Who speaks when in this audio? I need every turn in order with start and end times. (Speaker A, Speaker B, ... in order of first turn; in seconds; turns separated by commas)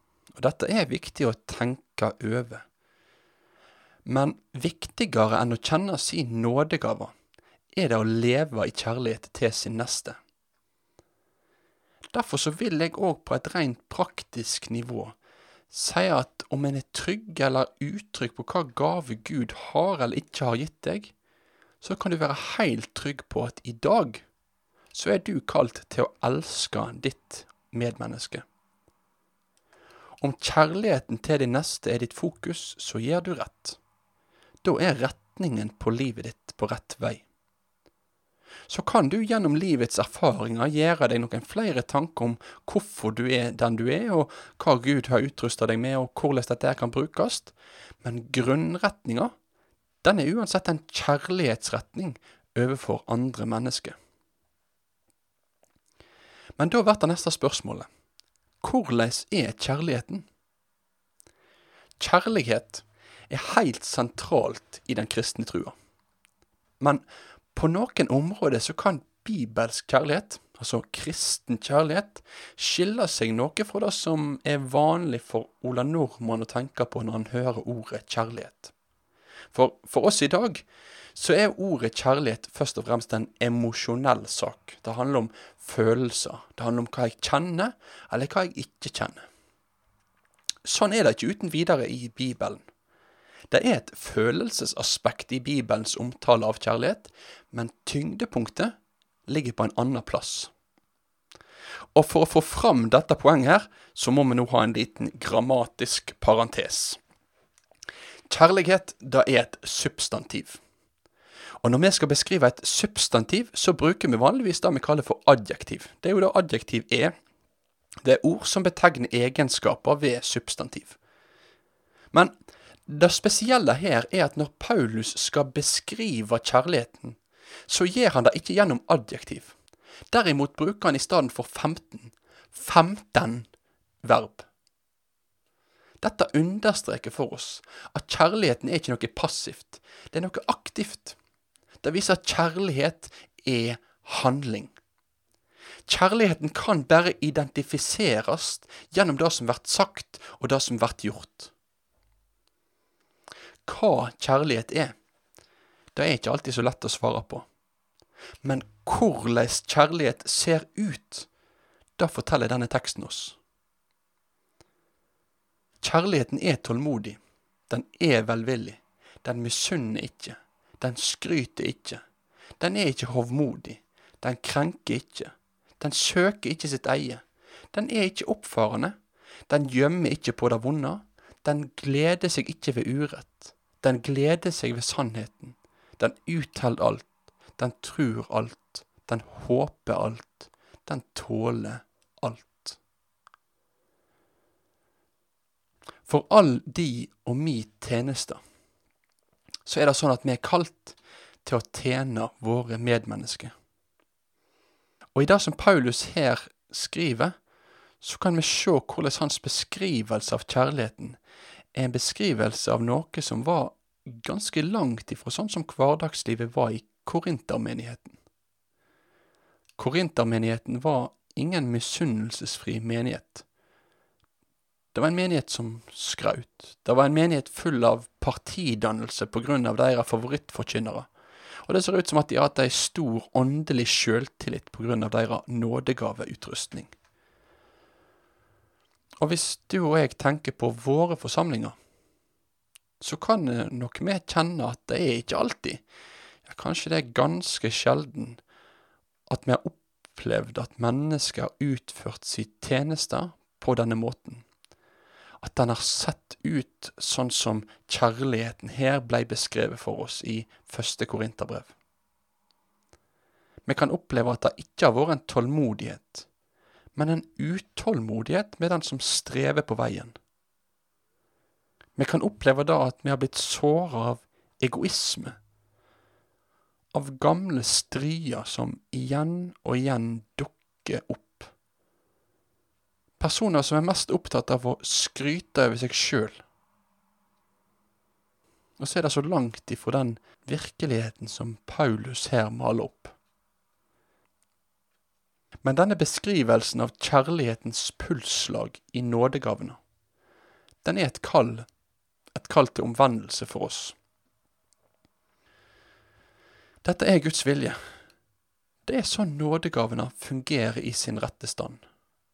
Speaker A: 0.3-2.6, Speaker A: 4.0-7.1, Speaker A: 7.7-10.2, Speaker A: 12.1-15.2, Speaker A: 15.7-21.1, Speaker A: 21.8-24.2, Speaker A: 24.9-28.4, Speaker A: 30.2-33.8, Speaker A: 34.6-37.2, Speaker A: 38.7-49.3, Speaker A: 50.0-54.0, Speaker A: 56.6-57.9, Speaker A: 58.6-60.2, Speaker A: 62.0-65.7, Speaker A: 66.8-78.7, Speaker A: 79.5-89.2, Speaker A: 90.6-92.6, Speaker A: 93.5-98.7, Speaker A: 99.3-100.5, Speaker A: 101.9-107.0, Speaker A: 108.3-110.6, Speaker A: 111.6-117.1, Speaker A: 118.0-121.0, Speaker A: 122.9-127.2, Speaker A: 127.7-129.5, Speaker A: 130.1-133.5, Speaker A: 134.0-134.5, Speaker A: 136.0-141.2, Speaker A: 141.8-144.8, Speaker A: 145.9-151.5, Speaker A: 153.6-154.9, Speaker A: 155.9-157.4, Speaker A: 158.4-161.3, Speaker A: 162.0-163.4, Speaker A: 165.8-172.0, Speaker A: 172.6-178.9, Speaker A: 179.5-192.8, Speaker A: 196.1-198.4, Speaker A: 199.7-203.5, Speaker A: 205.1-207.3, Speaker A: 208.0-211.2, Speaker A: 211.7-218.2, Speaker A: 219.8-223.4, Speaker A: 224.9-231.1, Speaker A: 231.6-236.9, Speaker A: 239.2-241.8, Speaker A: 243.0-245.8, Speaker A: 246.4-248.4, Speaker A: 249.3-254.4, Speaker A: 255.4-261.7, Speaker A: 263.6-266.3, Speaker A: 266.9-270.1, Speaker A: 272.0-275.4, Speaker A: 276.9-281.5, Speaker A: 283.2-286.4, Speaker A: 288.8-293.1, Speaker A: 295.6-299.8, Speaker A: 300.8-301.6, Speaker A: 302.3-303.9, Speaker A: 306.8-307.8, Speaker A: 308.8-311.8